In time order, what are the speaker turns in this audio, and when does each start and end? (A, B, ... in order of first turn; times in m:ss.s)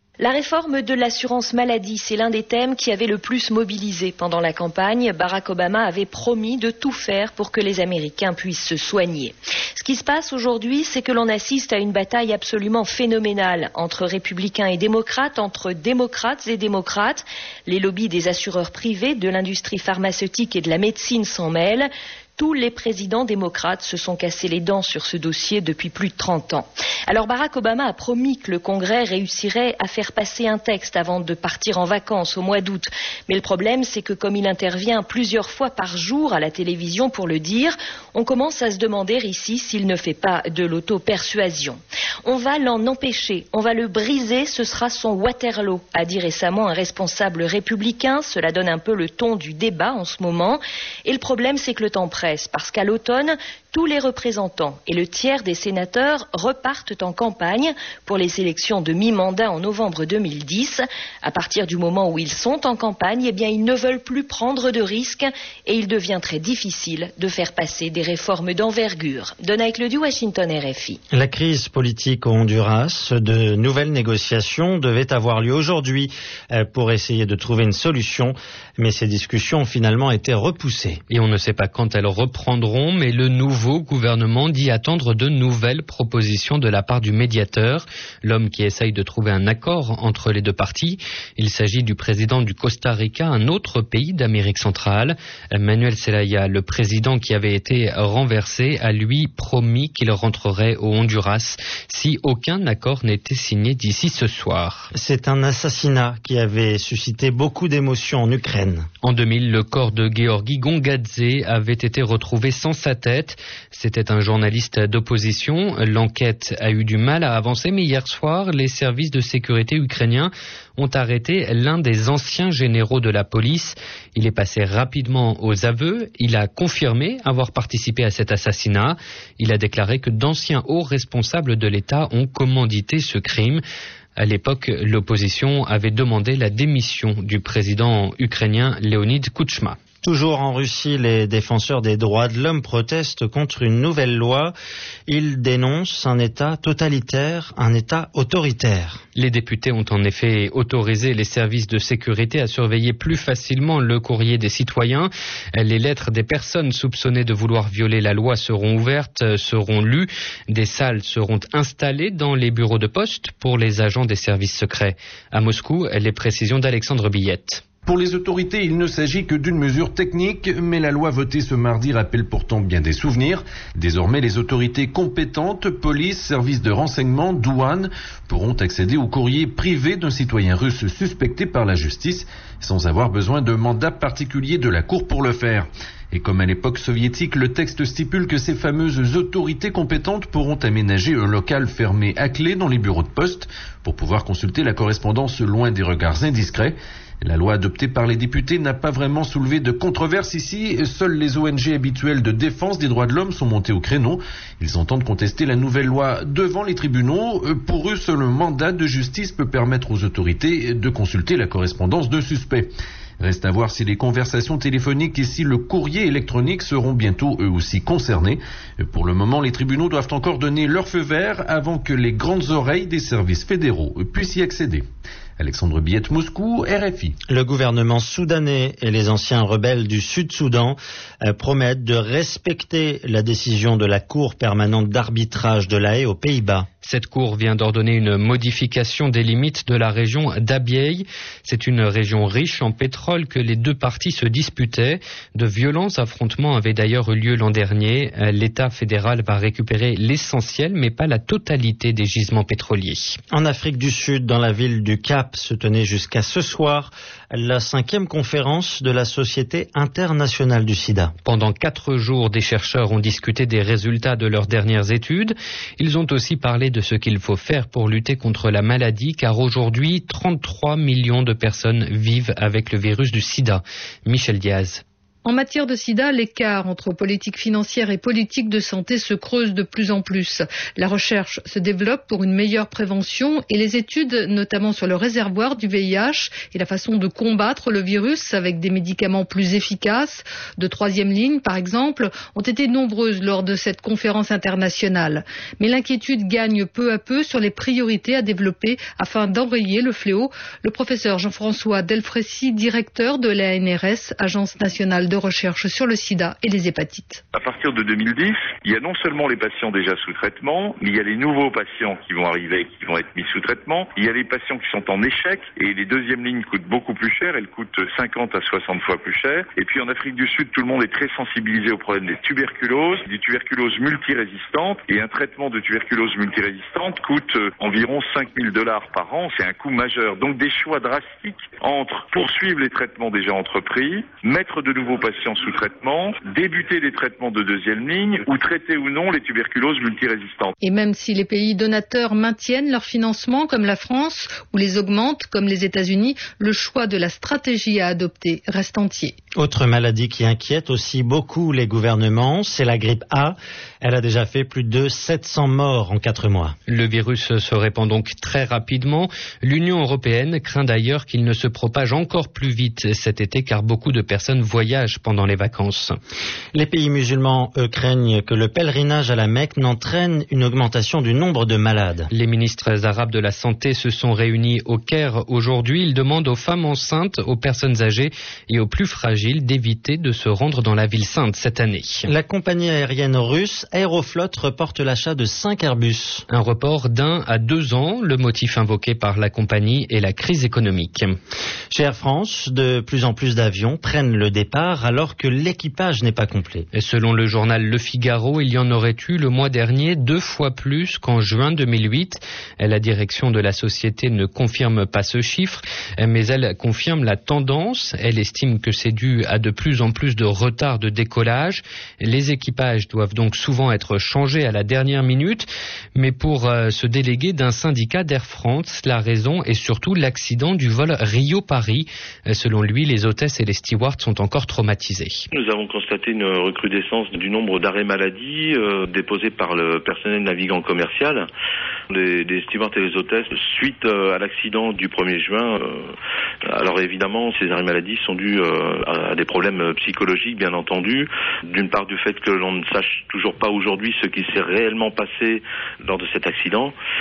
0:00.2-1:11.0 A
1:11.1-1:21.0 B
1:21.1-1:44.9 C
1:44.9-1:48.9 B
1:49.0-2:13.6 C
2:14.2-2:19.8 C
2:20.0-2:24.5 B
2:25.1-2:29.0 B
2:29.2-2:47.6 C
2:47.8-3:44.8 D
3:45.4-3:47.2 D
3:47.3-3:56.7 B
3:56.8-4:13.2 C
4:13.3-4:21.1 B
4:21.2-4:34.8 C
4:35.2-5:07.2 E
5:07.3-5:40.5 F
5:40.6-5:49.2 E
5:49.4-5:56.5 B
5:56.7-6:06.0 C
6:06.5-6:12.1 B
6:12.1-6:22.1 C
6:22.1-6:26.2 B
6:26.3-6:31.2 C
6:31.7-6:36.6 B
6:36.7-7:05.3 C
7:05.3-7:11.3 G
7:11.9-7:15.9 G
7:16.5-7:26.7 G